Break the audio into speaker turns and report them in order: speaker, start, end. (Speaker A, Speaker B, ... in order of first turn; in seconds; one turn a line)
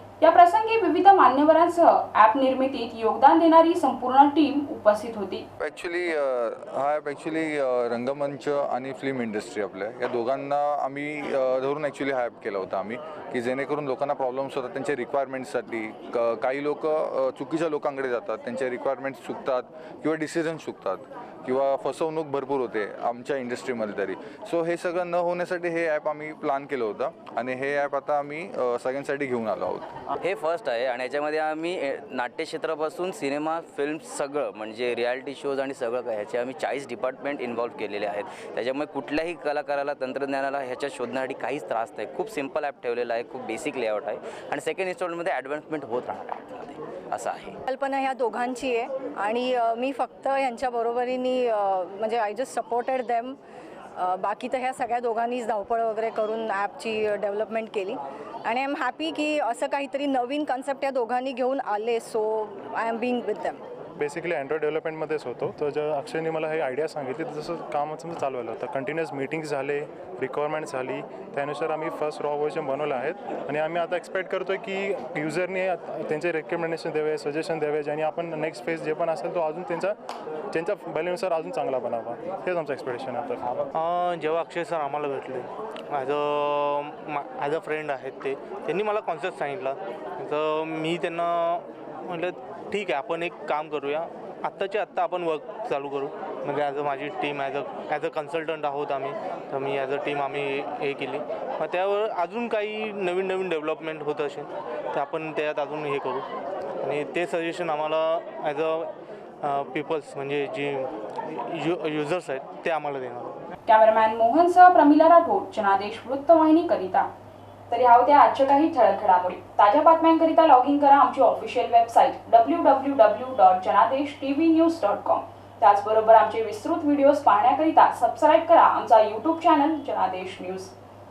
Speaker A: 0.2-5.4
Speaker B: 5.6-30.0
Speaker C: 30.2-47.5
Speaker D: 47.7-53.4
Speaker D: 54.0-63.6
Speaker E: 64.0-80.0
Speaker E: 80.5-83.5
Speaker F: 83.8-106.2
Speaker F: 106.8-108.9
Speaker F: 109.4-113.4
Speaker A: 113.7-117.1
Speaker A: 117.7-130.7